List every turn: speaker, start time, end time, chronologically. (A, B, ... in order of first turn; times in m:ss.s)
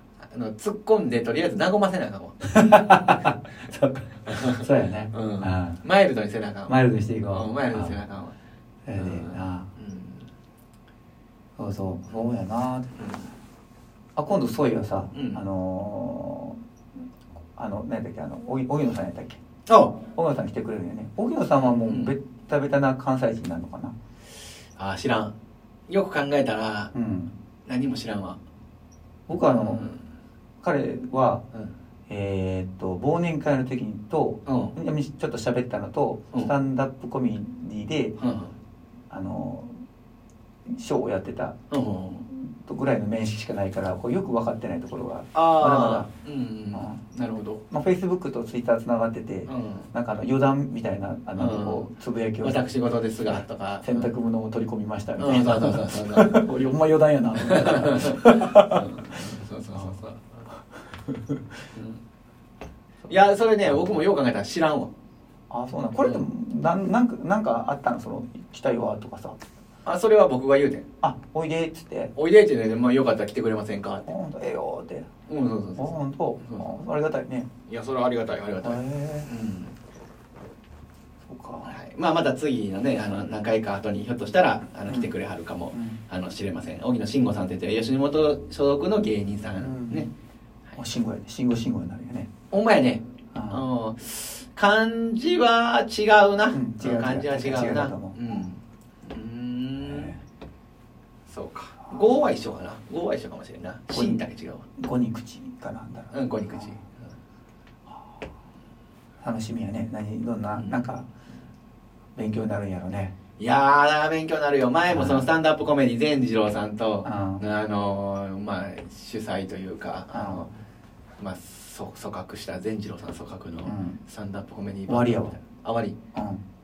0:00.3-0:02.4 A
0:02.5-0:05.8 B
0:04.3-0:08.3 A
0:06.7-0:08.0 B
0:08.8-0:09.7 B
0:09.0-0:10.3 A
0:11.6-0:13.0 B
0:13.0-0:13.3 A
0:14.2-0:16.6 B
0:15.1-0:15.4 A
0:17.5-0:19.4 B
0:19.7-0:20.0 A
0:20.1-0:23.9 B
0:21.8-0:22.1 A
0:24.8-0:25.3 A
0:25.9-0:26.9 A
0:26.9-0:27.3 B
0:27.6-0:28.4 A
0:29.3-0:29.9 B
0:29.5-0:30.0 A
0:30.6-0:31.4 B
0:32.1-0:38.2 B
0:34.4-0:34.7 A
0:38.2-0:38.5 A
0:39.1-0:39.8 B
0:40.7-0:41.6 B
0:41.7-0:42.3 A
0:42.3-0:46.1 B
0:45.3-0:47.6 A
0:46.7-0:47.0 B
0:47.7-0:52.6 B
0:49.4-0:49.9 A
0:51.4-0:51.9 A
0:52.4-0:54.1 A
0:53.2-0:59.2 B
0:55.2-0:56.5 A
0:57.4-1:00.2 A
1:01.1-1:01.4 B
1:03.1-1:04.9 A
1:05.5-1:09.4 B
1:06.0-1:06.2 A
1:09.8-1:10.8 A
1:11.0-1:12.1 B
1:12.2-1:14.0 A
1:14.0-1:15.1 B
1:15.3-1:16.6 A
1:15.8-1:17.5 B
1:17.7-1:19.7 A
1:18.6-1:19.3 B
1:21.3-1:21.8 B
1:21.6-1:30.1 A
1:24.9-1:25.1 B
1:25.7-1:26.0 B
1:29.6-1:30.1 B
1:30.8-1:32.3 B
1:32.5-1:40.1 A
1:33.3-1:33.6 B
1:36.5-1:38.4 B
1:39.8-1:40.2 B
1:41.3-1:44.6 A
1:43.9-1:44.2 B
1:44.8-1:46.8 B
1:46.1-1:46.8 A
1:47.9-1:48.2 B
1:49.2-1:51.1 B
1:50.6-1:50.8 A
1:52.2-1:53.1 B
1:53.4-2:00.5 A
1:54.9-1:55.3 B
1:57.0-1:57.4 B
2:00.1-2:00.5 B
2:01.2-2:06.0 A
2:03.6-2:04.0 B
2:04.9-2:05.3 B
2:06.1-2:06.4 B